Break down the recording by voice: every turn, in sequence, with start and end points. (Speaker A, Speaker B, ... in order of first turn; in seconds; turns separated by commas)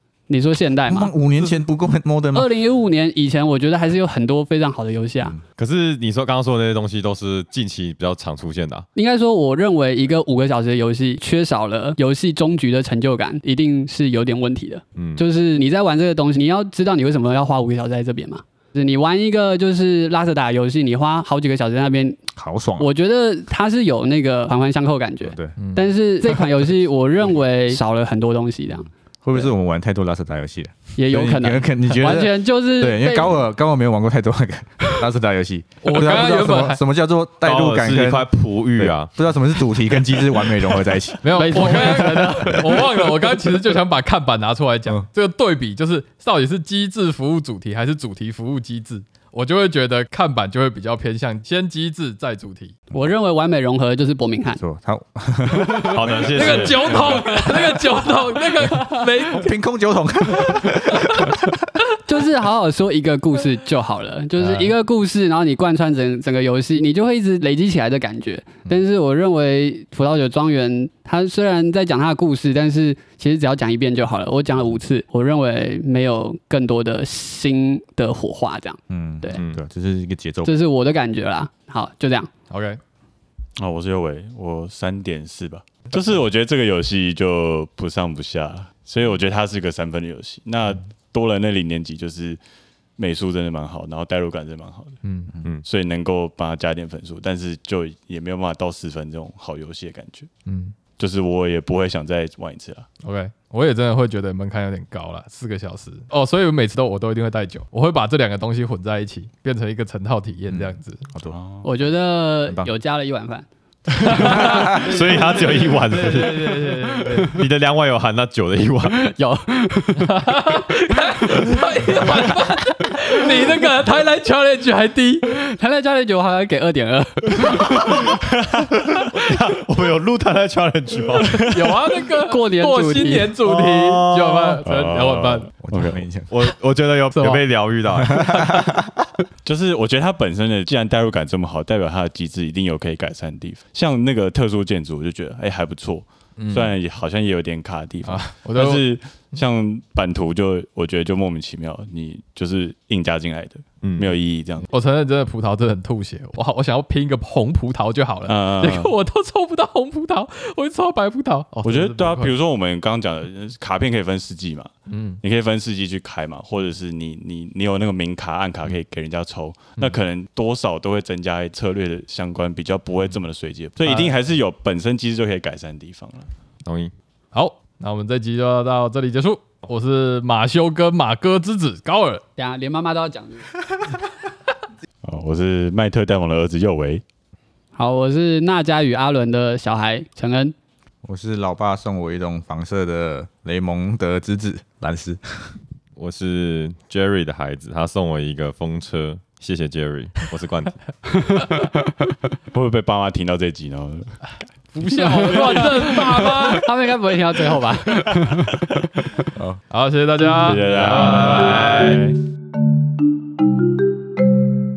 Speaker A: 0.3-1.1, Speaker B: 0.8-2.5, Speaker A: 2.3-5.4, Speaker C: 5.6-8.8, Speaker A: 8.9-22.2, Speaker C: 14.9-15.2, Speaker B: 22.3-22.9, Speaker A: 22.8-29.5, Speaker B: 25.2-25.6, Speaker D: 25.6-25.9, Speaker B: 29.2-41.7, Speaker A: 31.0-33.4, Speaker D: 35.8-36.8, Speaker C: 37.4-39.1, Speaker D: 41.2-52.8, Speaker A: 41.3-42.8, Speaker A: 52.9-54.6, Speaker B: 54.6-56.8, Speaker D: 55.7-59.5, Speaker C: 55.8-57.5, Speaker B: 58.7-61.6, Speaker D: 60.6-61.3, Speaker A: 62.0-79.4, Speaker D: 64.4-64.7, Speaker B: 78.9-80.5, Speaker A: 80.4-82.3, Speaker D: 82.5-82.8, Speaker E: 83.6-92.4, Speaker E: 93.0-95.0, Speaker D: 95.0-95.3, Speaker E: 95.6-100.3, Speaker D: 100.5-100.7, Speaker E: 101.0-102.9, Speaker D: 103.0-111.0, Speaker B: 110.5-111.4, Speaker E: 111.3-111.6, Speaker A: 111.6-113.5, Speaker D: 114.0-117.4, Speaker A: 114.0-115.4, Speaker C: 114.2-116.5, Speaker B: 114.2-114.7, Speaker A: 116.2-117.2, Speaker C: 117.2-119.0, Speaker A: 118.9-120.2, Speaker D: 120.0-125.3, Speaker A: 121.3-121.6, Speaker A: 125.3-128.1, Speaker C: 129.0-131.5, Speaker D: 131.2-135.5, Speaker A: 132.2-133.3, Speaker C: 133.4-134.6, Speaker E: 134.6-136.0, Speaker B: 135.6-136.3, Speaker C: 136.3-138.8, Speaker D: 137.1-137.4, Speaker D: 138.1-138.6, Speaker E: 139.4-154.7, Speaker D: 146.4-146.7, Speaker D: 148.0-148.8, Speaker C: 153.8-154.1, Speaker D: 154.7-162.3, Speaker E: 158.3-158.9, Speaker E: 161.6-164.7, Speaker D: 164.9-165.2, Speaker E: 165.2-176.3, Speaker D: 173.8-174.1, Speaker C: 176.6-176.9, Speaker D: 177.3-182.2, Speaker A: 182.4-183.6, Speaker E: 185.0-187.0, Speaker A: 187.7-190.5, Speaker B: 191.0-195.5, Speaker C: 196.0-200.8, Speaker E: 202.5-204.2, Speaker D: 204.7-206.7, Speaker A: 205.0-208.6, Speaker E: 205.5-206.1, Speaker D: 209.7-211.9, Speaker E: 210.4-212.2, Speaker C: 210.8-211.9